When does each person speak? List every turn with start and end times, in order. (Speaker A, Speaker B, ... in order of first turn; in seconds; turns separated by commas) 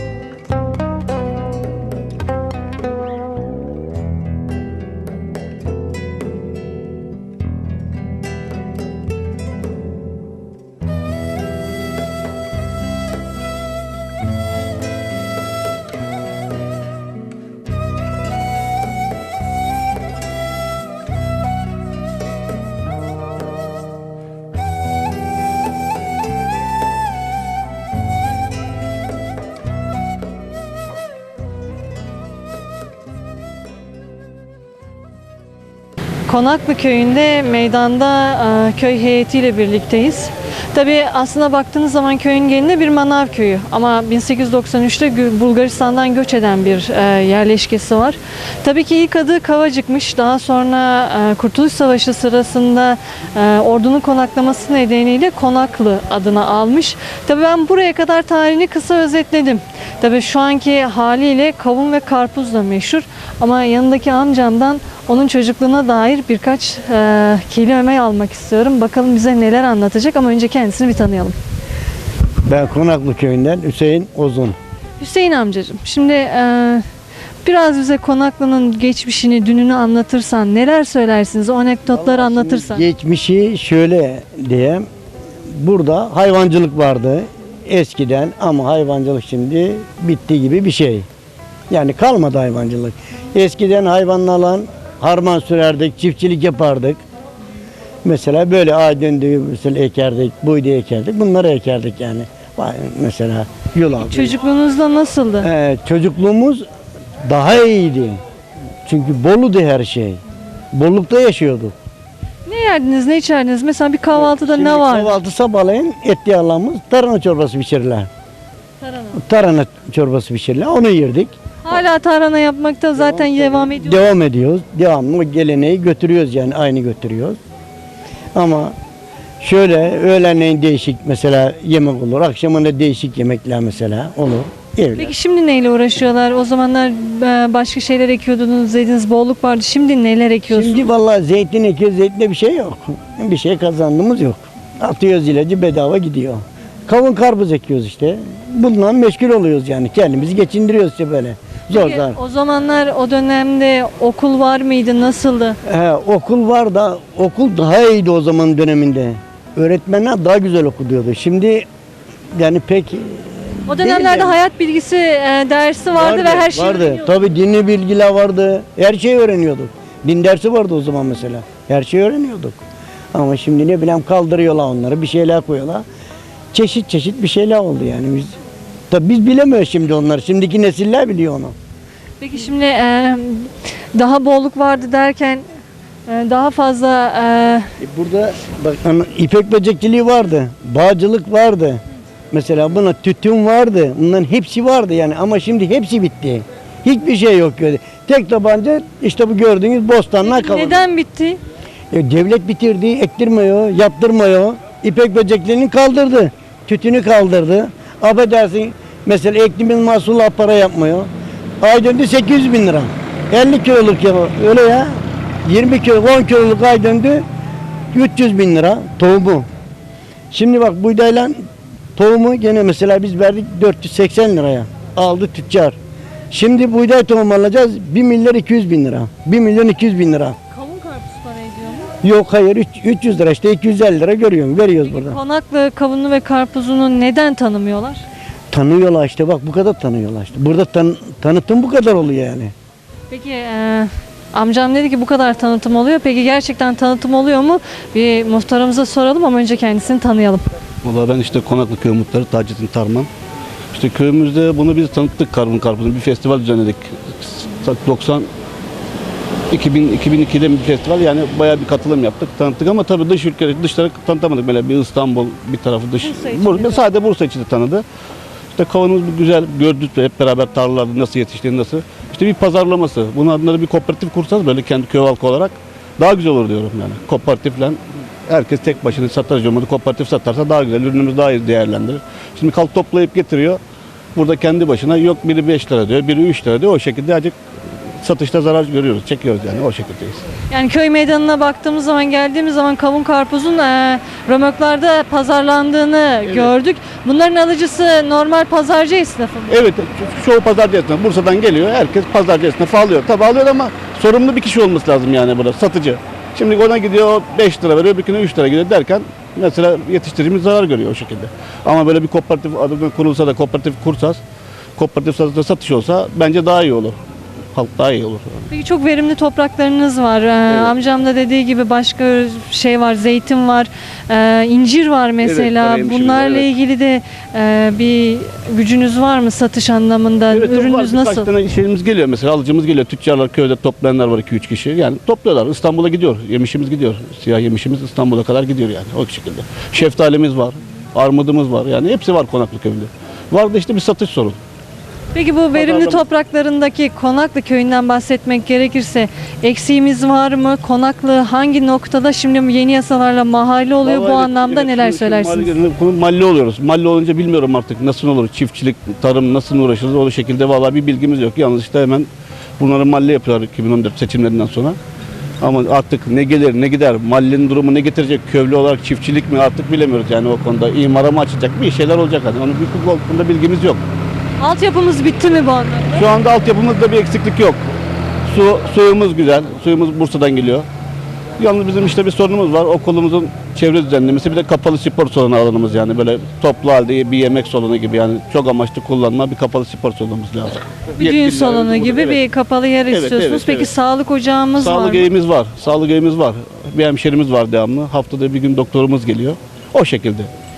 Speaker A: 36.3-71.3, Speaker B: 72.5-74.5, Speaker A: 75.0-76.8, Speaker A: 77.4-82.8, Speaker B: 81.9-84.9, Speaker B: 85.5-91.1, Speaker B: 91.7-97.0, Speaker B: 98.0-104.3, Speaker A: 104.0-105.5, Speaker B: 105.4-106.6, Speaker B: 107.2-108.2, Speaker B: 108.8-110.2, Speaker B: 110.7-111.7, Speaker A: 112.5-115.1, Speaker B: 114.1-118.1, Speaker A: 118.8-119.2, Speaker B: 119.1-121.3, Speaker A: 121.6-124.1, Speaker B: 123.0-127.4, Speaker B: 128.3-128.8, Speaker B: 129.4-135.1, Speaker A: 134.9-140.8, Speaker B: 140.5-152.2, Speaker A: 151.7-155.6, Speaker B: 155.6-161.7, Speaker B: 162.3-164.3, Speaker A: 163.7-167.2, Speaker B: 165.9-172.6, Speaker B: 173.1-175.8, Speaker B: 176.5-178.3, Speaker B: 178.9-181.5, Speaker A: 182.2-185.4, Speaker A: 186.1-187.7, Speaker B: 187.8-200.8, Speaker A: 200.2-201.4, Speaker B: 201.9-211.1, Speaker B: 211.6-217.2, Speaker B: 217.9-219.4, Speaker B: 220.3-221.4, Speaker B: 221.9-225.8, Speaker B: 226.3-230.4, Speaker A: 230.5-231.9, Speaker B: 232.0-235.2, Speaker A: 234.8-238.0, Speaker B: 238.5-242.5, Speaker A: 243.1-250.5, Speaker C: 250.8-253.1, Speaker C: 253.7-258.3, Speaker C: 259.5-267.8, Speaker A: 266.0-266.8, Speaker C: 268.6-283.6, Speaker C: 284.1-287.3, Speaker C: 288.0-290.2, Speaker A: 290.5-299.6, Speaker C: 299.5-314.2, Speaker C: 314.8-316.9, Speaker C: 317.5-318.5, Speaker A: 318.5-331.3, Speaker C: 325.2-326.5, Speaker C: 330.3-344.4, Speaker A: 345.1-355.5, Speaker C: 345.5-346.0, Speaker C: 353.8-362.1, Speaker C: 362.6-364.8, Speaker C: 365.4-373.8, Speaker A: 374.4-376.0, Speaker C: 375.9-377.6, Speaker C: 378.3-380.6, Speaker C: 381.4-392.2, Speaker A: 391.0-395.1, Speaker C: 392.9-393.7, Speaker C: 394.6-400.3